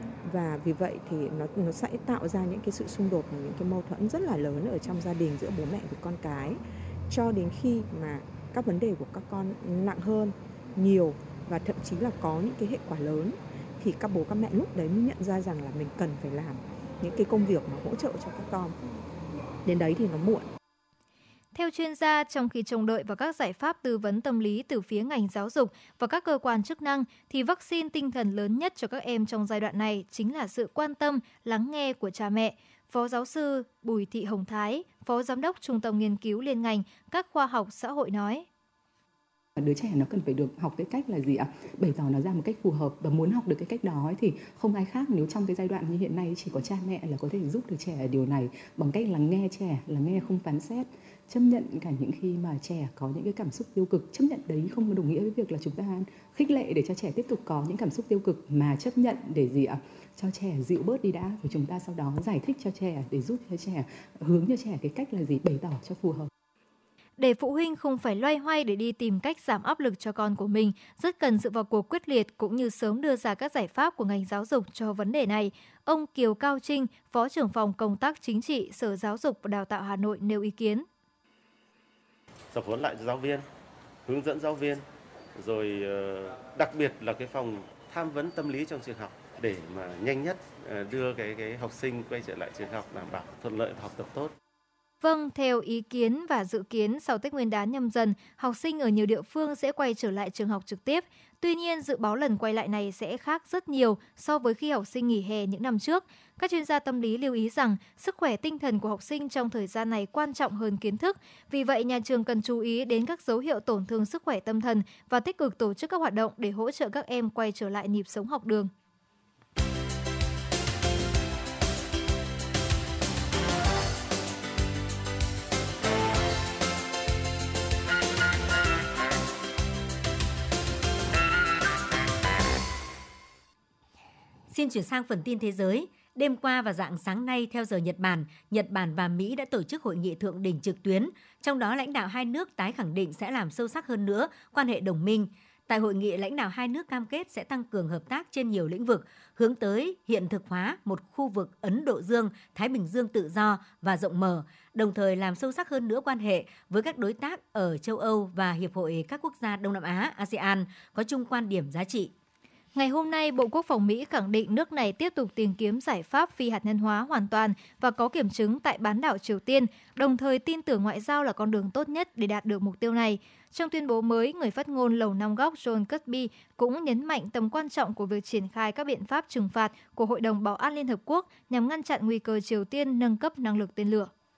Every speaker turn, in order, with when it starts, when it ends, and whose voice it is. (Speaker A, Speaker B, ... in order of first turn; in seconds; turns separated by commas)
Speaker A: 0.2-18.8, Speaker A: 19.6-20.5, Speaker B: 21.5-38.5, Speaker C: 39.6-66.3, Speaker B: 67.2-80.8, Speaker D: 82.5-83.5, Speaker D: 84.1-84.8, Speaker D: 85.4-94.3, Speaker B: 95.0-118.7, Speaker E: 134.5-162.1, Speaker B: 162.7-184.1